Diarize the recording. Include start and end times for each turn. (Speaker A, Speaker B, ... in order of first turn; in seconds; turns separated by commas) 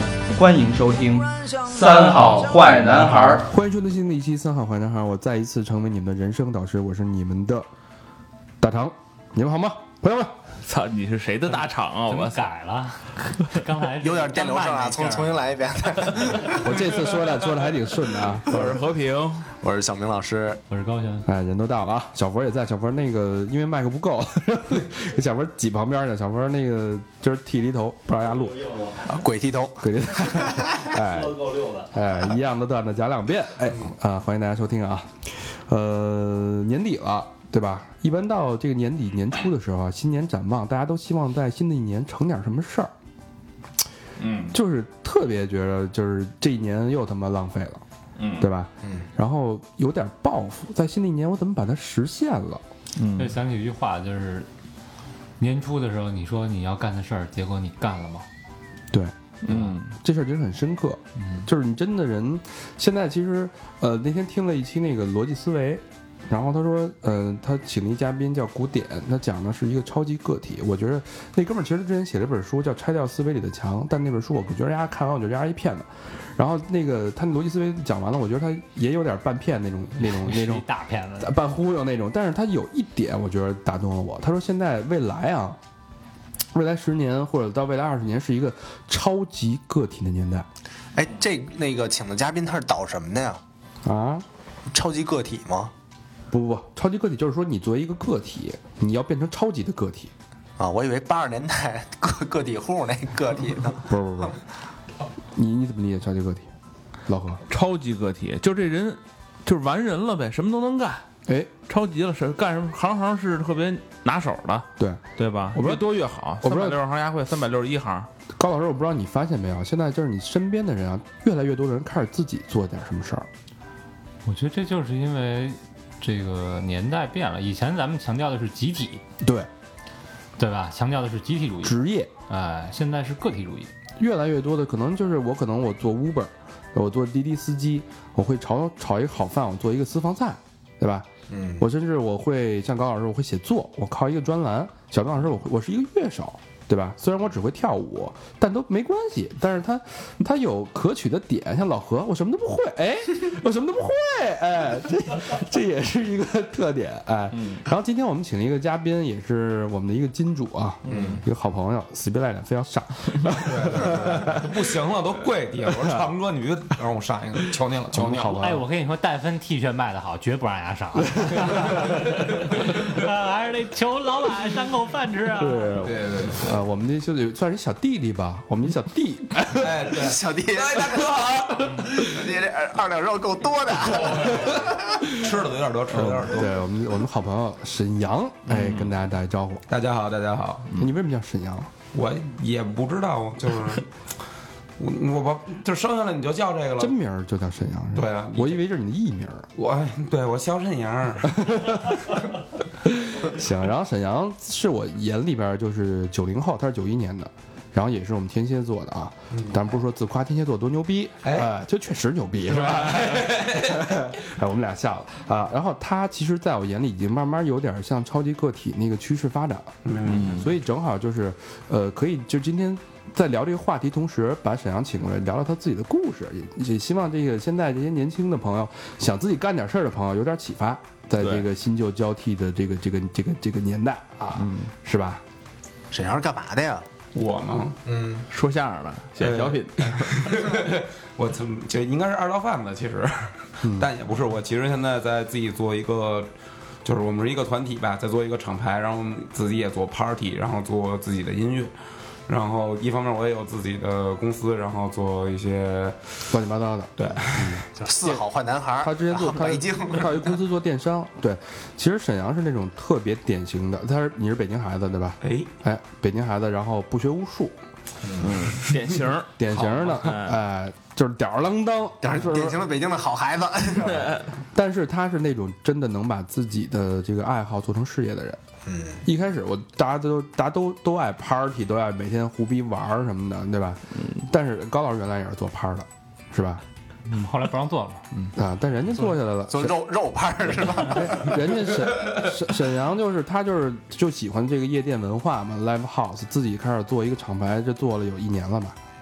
Speaker A: 0.3-3.5, Speaker B: 1.7-3.4, Speaker C: 3.5-7.7, Speaker C: 8.6-10.3, Speaker B: 10.6-12.4, Speaker D: 12.1-15.4, Speaker E: 14.0-16.8, Speaker C: 16.5-18.8, Speaker B: 18.4-19.5, Speaker E: 19.6-20.6, Speaker D: 20.7-21.3, Speaker C: 21.2-28.9, Speaker E: 28.9-29.9, Speaker C: 29.8-42.9, Speaker E: 30.4-30.9, Speaker B: 44.2-44.5, Speaker C: 44.5-47.8, Speaker B: 48.2-48.5, Speaker C: 48.4-52.6, Speaker B: 53.0-53.3, Speaker D: 53.1-54.5, Speaker D: 55.4-58.3, Speaker C: 58.9-80.6, Speaker B: 59.4-59.9, Speaker D: 61.2-61.5, Speaker D: 80.0-81.3, Speaker C: 81.2-85.6, Speaker C: 86.5-90.5, Speaker E: 90.9-93.4, Speaker C: 93.8-94.2, Speaker E: 94.7-95.7, Speaker C: 96.3-100.1, Speaker E: 100.6-104.3, Speaker C: 103.9-104.4, Speaker C: 105.3-106.5, Speaker C: 107.1-107.4, Speaker B: 107.5-111.0, Speaker C: 111.2-111.5, Speaker B: 111.7-118.1, Speaker C: 115.5-115.8, Speaker C: 116.4-116.8, Speaker C: 118.3-123.3, Speaker D: 124.2-129.0, Speaker C: 129.2-129.5, Speaker D: 130.4-133.7, Speaker C: 131.6-132.1, Speaker C: 134.0-141.1, Speaker E: 141.3-141.6, Speaker C: 141.6-164.6, Speaker B: 160.9-161.2, Speaker F: 160.9-161.2, Speaker F: 163.4-168.5, Speaker C: 167.9-168.6, Speaker D: 168.2-175.7, Speaker C: 175.4-180.0, Speaker F: 175.8-176.5, Speaker F: 179.6-182.0, Speaker E: 179.9-185.2, Speaker F: 185.1-186.5, Speaker C: 185.9-189.6, Speaker F: 189.7-190.7, Speaker C: 190.7-191.7, Speaker F: 191.9-193.9, Speaker F: 194.8-196.9, Speaker C: 196.8-199.5, Speaker F: 197.9-198.6, Speaker F: 199.6-201.5, Speaker C: 201.3-202.2, Speaker C: 202.8-235.2, Speaker F: 209.3-209.6, Speaker F: 211.2-211.5, Speaker F: 212.5-214.1, Speaker F: 219.8-220.5, Speaker B: 220.1-220.4, Speaker B: 231.2-231.4, Speaker B: 234.4-234.7, Speaker E: 235.9-236.9, Speaker F: 237.1-237.8, Speaker E: 237.8-238.3, Speaker B: 238.3-240.4, Speaker F: 239.2-246.3, Speaker C: 243.6-243.9, Speaker F: 246.8-251.7, Speaker F: 252.3-256.0, Speaker C: 256.3-258.2, Speaker F: 257.0-257.6, Speaker E: 257.7-260.4, Speaker C: 258.8-267.6, Speaker F: 265.2-265.5, Speaker E: 268.0-268.4, Speaker B: 268.2-270.4, Speaker C: 269.4-272.6, Speaker E: 272.0-274.3, Speaker B: 273.9-274.2, Speaker C: 274.5-278.4, Speaker E: 278.7-279.0, Speaker C: 279.0-286.6, Speaker D: 287.1-288.0, Speaker C: 288.3-289.7, Speaker E: 289.5-291.5, Speaker C: 290.8-298.8